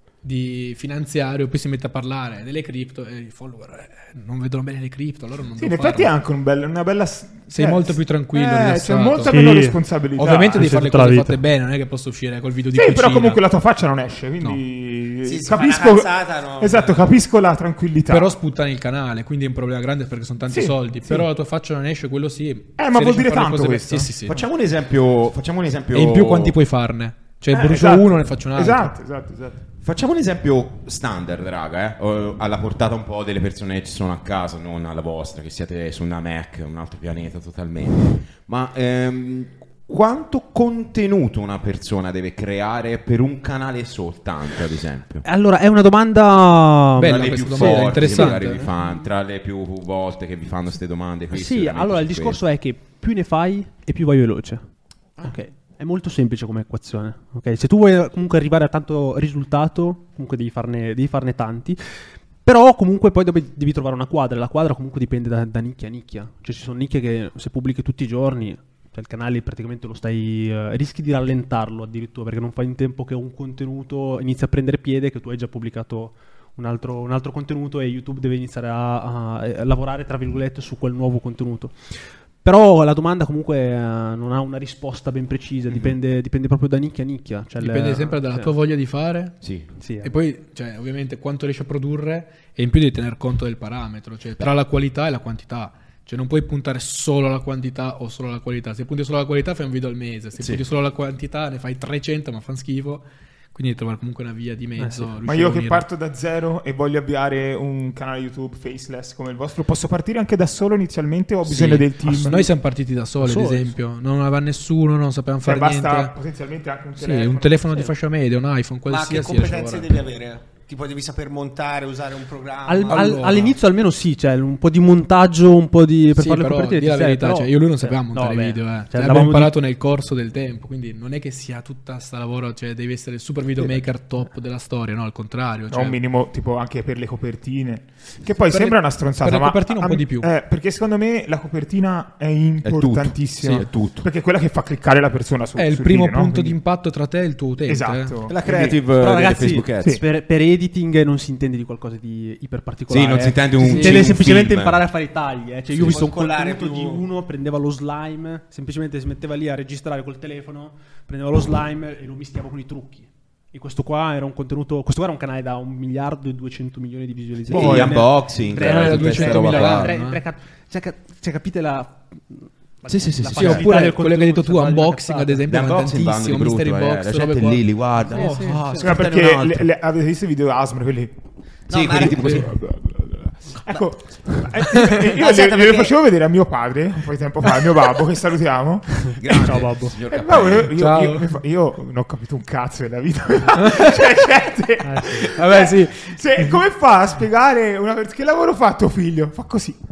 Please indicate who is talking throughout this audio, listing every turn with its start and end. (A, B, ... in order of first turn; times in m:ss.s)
0:00.2-0:06.1 A
0:05.6-0:10.7 B
0:07.5-0:09.5 A
0:09.3-0:09.8 C
0:10.2-0:13.4 A
0:10.6-0:11.4 C
0:12.7-0:18.3 B
0:15.2-0:17.0 D
0:18.1-0:24.4 A
0:20.5-0:21.3 B
0:22.8-0:24.5 B
0:24.3-0:26.6 E
0:25.9-0:28.9 A
0:27.5-0:29.6 B
0:29.8-0:45.2 E
0:45.2-0:48.7 C
0:47.0-0:48.7 A
0:47.0-0:52.4 E
0:51.3-1:01.8 C
1:02.4-1:28.5 C
1:27.6-1:29.4 A
1:29.4-1:29.7 E
1:29.8-1:30.1 C
1:30.0-1:45.8 A
1:44.8-1:45.2 C
1:45.2-1:52.4 B
1:51.4-1:56.2 A
1:53.2-1:53.8 C
1:55.4-1:57.9 B
1:57.0-2:00.0 A
1:58.9-2:03.4 D
2:02.7-2:09.6 C
2:02.9-2:03.6 A
2:06.2-2:16.0 A
2:15.7-2:26.6 B
2:18.5-2:20.3 A
2:22.6-2:24.1 E
2:25.6-2:28.2 A
2:27.7-2:28.8 B
2:28.3-2:30.0 E
2:28.7-2:55.4 C
2:32.9-2:34.8 E
2:33.6-2:34.1 A
2:35.7-2:36.0 E
2:35.8-2:37.0 D
2:47.5-2:50.0 E
2:47.6-2:50.2 A
2:52.9-2:53.8 E
2:53.4-2:58.6 A
2:55.5-2:59.7 E
2:58.1-2:59.0 C
2:58.8-3:01.1 B
3:01.7-3:02.5 E
3:01.7-3:02.3 D
3:02.0-3:19.8 B
3:05.0-3:06.0 D
3:09.1-3:10.0 C
3:09.2-3:10.8 E
3:10.8-3:11.3 A
3:13.6-3:14.0 A
3:14.8-3:15.4 C
3:15.3-3:16.6 A